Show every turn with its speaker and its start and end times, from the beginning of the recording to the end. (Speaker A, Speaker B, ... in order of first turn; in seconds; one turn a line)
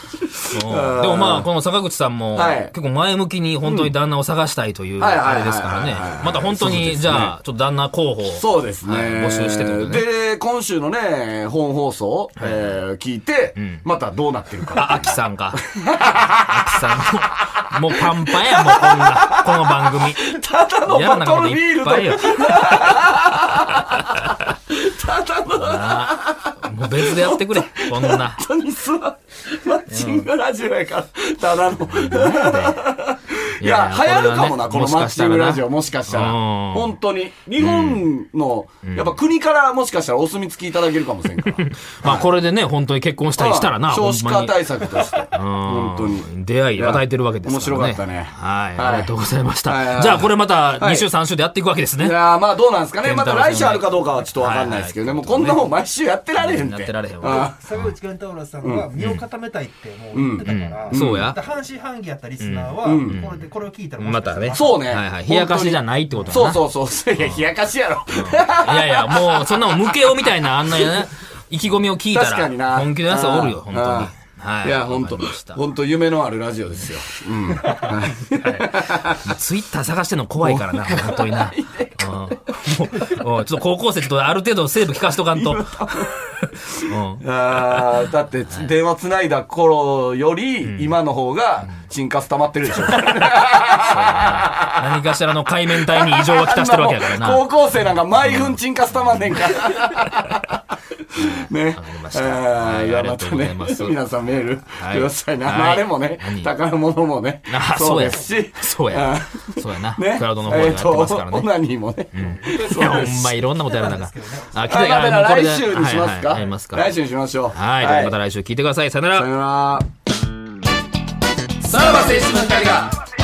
Speaker A: 0.2-1.5
Speaker B: 0.5-10.1
Speaker A: 2.4-2.7
Speaker A: 3.6-3.9
Speaker A: 5.0-7.3
Speaker A: 8.3-17.0
Speaker B: 12.4-12.8
Speaker B: 13.6-13.8
Speaker B: 14.7-15.6
Speaker B: 16.3-23.0
Speaker A: 18.0-42.3
Speaker B: 25.6-28.4
Speaker B: 29.9-30.3
Speaker B: 31.9-32.8
Speaker B: 33.6-36.9
Speaker B: 37.6-38.1
Speaker B: 38.8-39.2
Speaker B: 41.6-44.6
Speaker A: 43.4-49.1
Speaker B: 45.3-52.2
Speaker A: 49.7-51.1
Speaker A: 52.0-57.6
Speaker B: 53.0-55.6
Speaker B: 56.4-57.9
Speaker C: 57.3-64.9
Speaker A: 58.6-58.9
Speaker B: 59.0-59.2
Speaker A: 60.1-61.3
Speaker B: 60.5-61.4
Speaker B: 62.4-63.5
Speaker A: 62.8-63.2
Speaker B: 64.0-66.6
Speaker A: 64.5-70.0
Speaker B: 67.2-67.4
Speaker B: 68.1-75.6
Speaker A: 70.8-71.0
Speaker A: 72.1-74.1
Speaker A: 74.6-79.2
Speaker B: 78.3-85.7
Speaker A: 80.4-82.4
Speaker A: 85.3-86.2
Speaker B: 86.4-87.8
Speaker A: 87.2-94.9
Speaker B: 90.7-90.9
Speaker B: 93.7-97.4
Speaker A: 95.8-100.6
Speaker B: 98.2-99.4
Speaker A: 101.2-113.3
Speaker B: 101.2-104.0
Speaker B: 104.7-106.5
Speaker B: 107.5-111.5
Speaker B: 112.1-116.9
Speaker C: 112.5-114.6
Speaker A: 114.7-118.2
Speaker B: 117.5-119.3
Speaker A: 119.1-119.9
Speaker A: 121.6-123.0